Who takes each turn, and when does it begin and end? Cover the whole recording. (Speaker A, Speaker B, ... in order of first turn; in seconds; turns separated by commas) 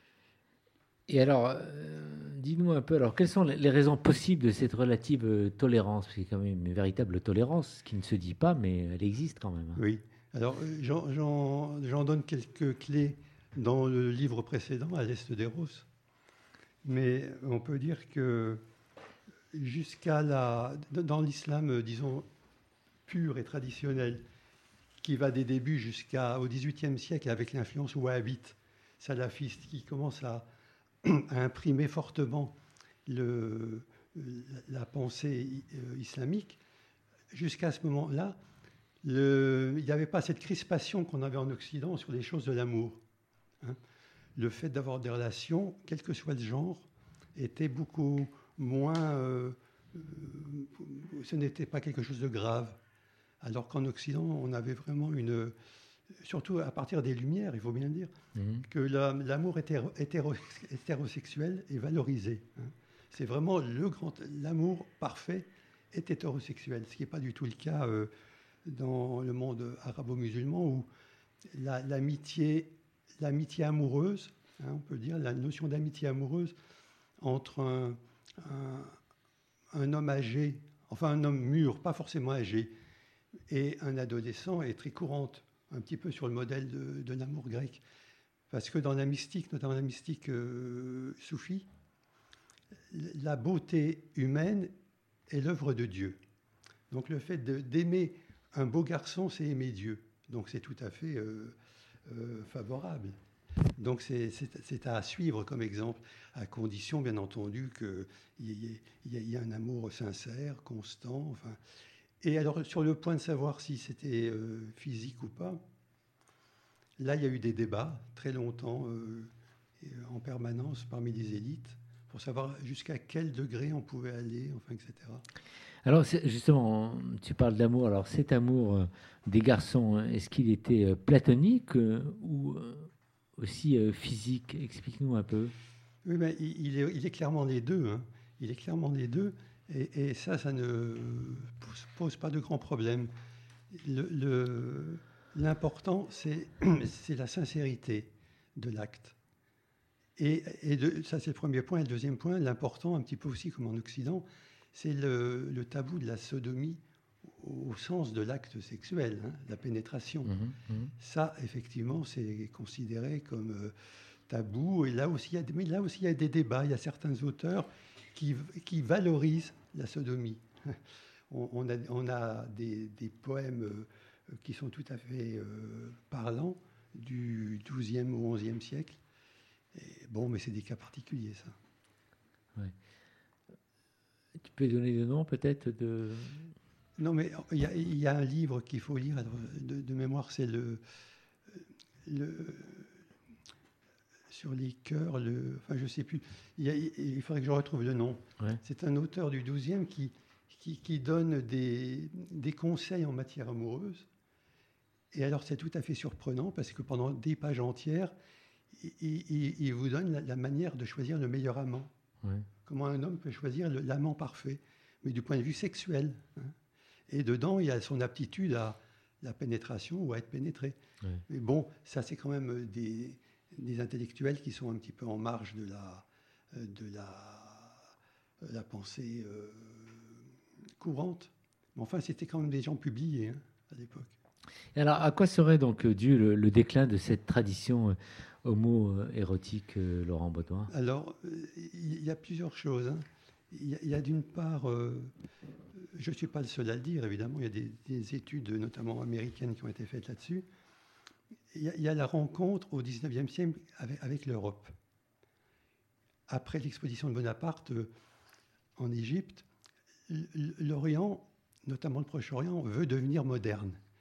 Speaker A: 1.1-9.8, Speaker B: 9.8-15.9, Speaker B: 16.8-18.6, Speaker B: 19.5-22.3, Speaker B: 23.1-24.2, Speaker B: 25.0-30.5, Speaker B: 31.0-36.6, Speaker B: 37.3-38.4, Speaker B: 39.0-43.0, Speaker B: 44.4-52.8, Speaker B: 53.4-55.5, Speaker B: 56.1-58.1, Speaker A: 58.4-58.6, Speaker B: 58.6-68.1, Speaker B: 68.6-70.9, Speaker B: 71.5-76.5, Speaker B: 77.2-79.0, Speaker B: 79.7-82.7, Speaker B: 83.5-87.8, Speaker B: 88.5-91.7, Speaker B: 92.9-94.7, Speaker B: 95.3-96.2, Speaker B: 96.9-101.5, Speaker B: 102.1-103.2, Speaker B: 103.8-111.6, Speaker B: 112.2-115.6, Speaker B: 117.0-125.2, Speaker A: 125.8-135.5, Speaker B: 136.0-143.1, Speaker B: 143.7-149.1, Speaker B: 150.2-160.3, Speaker A: 160.2-160.9, Speaker B: 161.0-163.7, Speaker B: 164.3-179.0, Speaker B: 179.7-181.5, Speaker A: 184.4-186.5, Speaker B: 187.0-190.8, Speaker B: 191.5-192.9, Speaker B: 194.3-204.1, Speaker B: 205.1-208.1, Speaker B: 208.7-211.9, Speaker B: 212.6-216.5, Speaker B: 217.1-220.8, Speaker B: 221.3-227.9, Speaker B: 228.4-230.2, Speaker B: 230.8-234.1, Speaker A: 234.8-240.7, Speaker B: 240.7-245.1, Speaker B: 245.8-250.5, Speaker B: 251.5-254.7, Speaker B: 256.3-257.9, Speaker B: 258.8-259.4, Speaker B: 260.1-263.8